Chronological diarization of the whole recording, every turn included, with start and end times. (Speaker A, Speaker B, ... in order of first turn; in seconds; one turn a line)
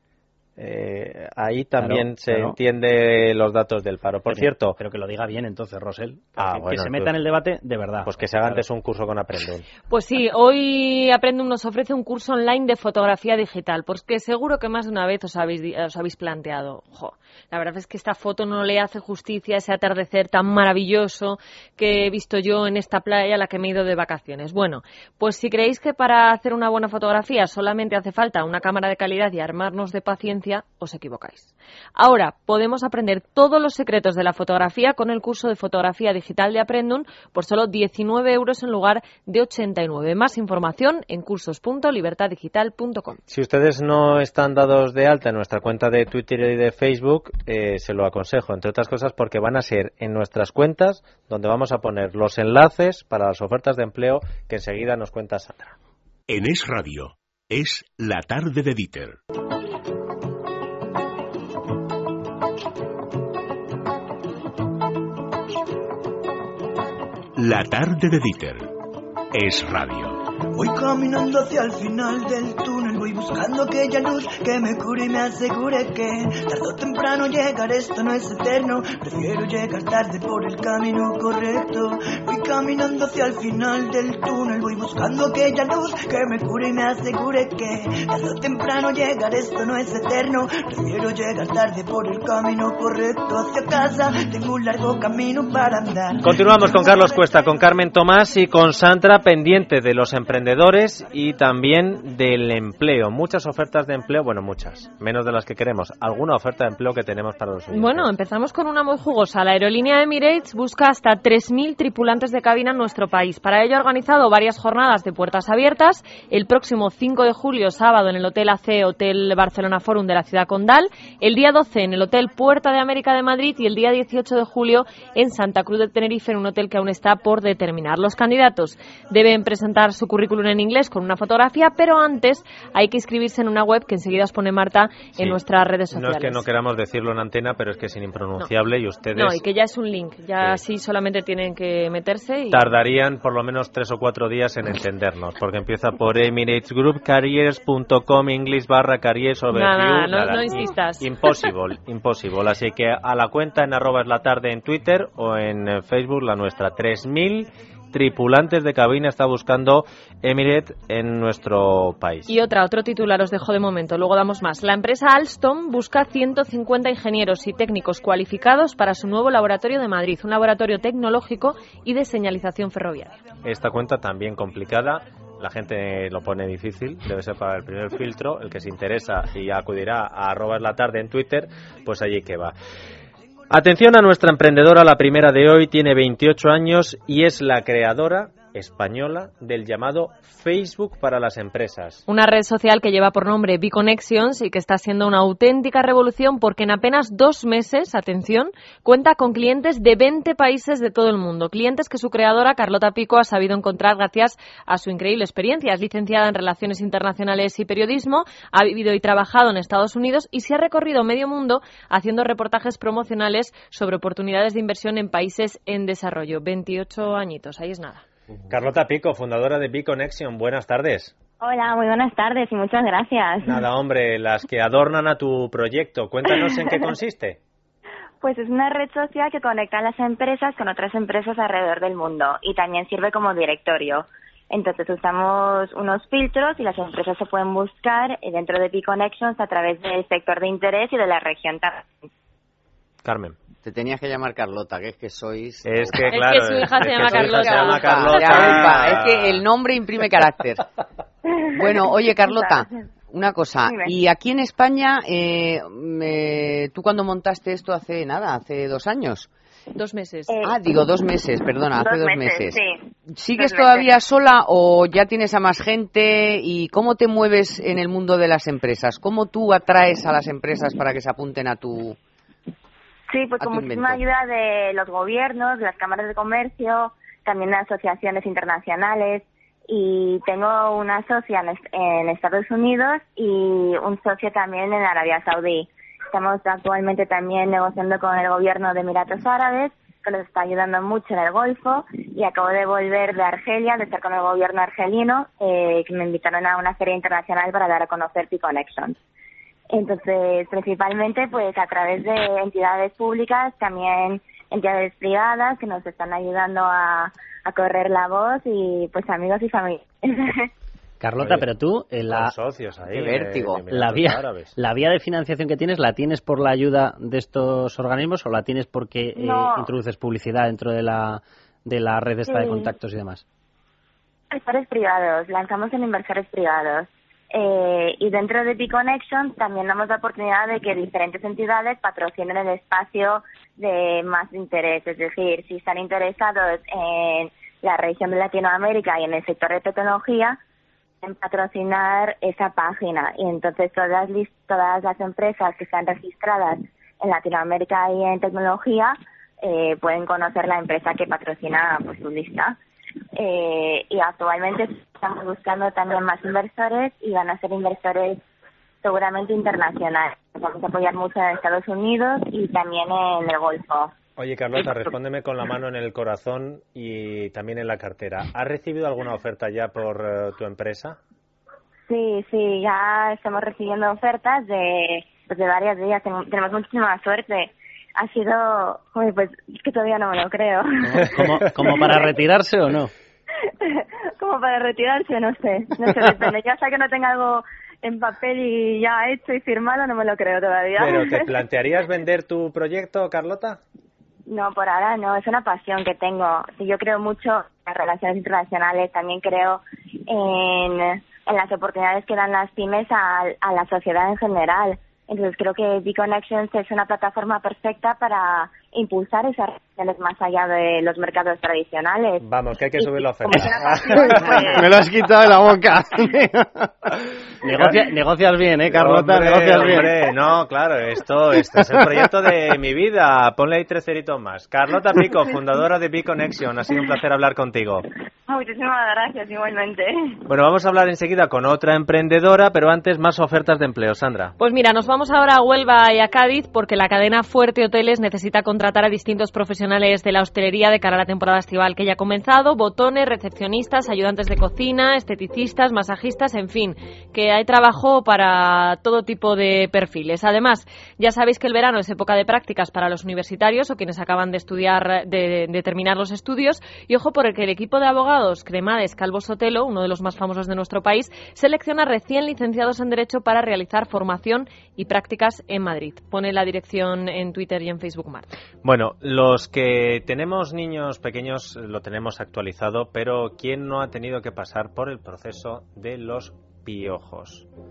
Speaker A: 0.6-4.8
Speaker B: 1.8-2.6
Speaker B: 4.3-8.7
Speaker A: 6.4-7.1
Speaker A: 8.0-9.7
Speaker C: 9.9-43.2
Speaker A: 43.3-55.8
Speaker D: 56.3-59.2
Speaker D: 67.4-68.7
Speaker D: 69.3-70.2
Speaker E: 70.5-97.0
Speaker A: 96.2-108.1
Speaker C: 107.7-136.5
Speaker A: 135.9-139.4
Speaker C: 139.1-142.7
Speaker A: 142.5-162.3
Speaker C: 149.5-151.1
Speaker C: 162.3-173.2
Speaker A: 173.4-182.6
Speaker A: 183.5-192.0
Speaker C: 192.1-218.0
Speaker A: 218.5-221.1
Speaker F: 221.4-223.7
Speaker A: 223.4-227.4
Speaker F: 226.3-226.9
Speaker F: 228.2-241.9
Speaker A: 243.0-243.4
Speaker G: 243.6-250.7
Speaker A: 245.7-249.4
Speaker C: 246.1-248.1
Speaker F: 251.3-252.9
Speaker G: 251.6-259.3
Speaker F: 253.7-253.9
Speaker C: 259.8-260.4
Speaker F: 260.3-260.6
Speaker G: 260.4-272.0
Speaker F: 261.8-262.8
Speaker F: 263.4-263.9
Speaker F: 273.1-299.0
Speaker G: 273.4-274.0
Speaker F: 299.7-310.5
Speaker B: 311.0-312.3
Speaker A: 311.2-311.5
Speaker A: 312.1-314.5
Speaker G: 312.9-313.6
Speaker B: 313.7-323.2
Speaker F: 319.2-319.7
Speaker F: 322.3-322.7
Speaker F: 324.3-340.4
Speaker F: 341.0-352.6
Speaker F: 353.1-358.2
Speaker F: 358.8-363.9
Speaker A: 364.2-371.0
Speaker F: 371.9-381.1
Speaker B: 380.9-382.9
Speaker F: 381.7-382.1
Speaker F: 383.6-391.4
Speaker A: 390.8-393.6
Speaker F: 394.3-414.7
Speaker A: 412.2-414.5
Speaker B: 413.3-419.9
Speaker A: 418.7-427.9
Speaker F: 428.3-430.2
Speaker A: 430.3-434.3
Speaker C: 434.4-468.3
Speaker A: 468.6-477.5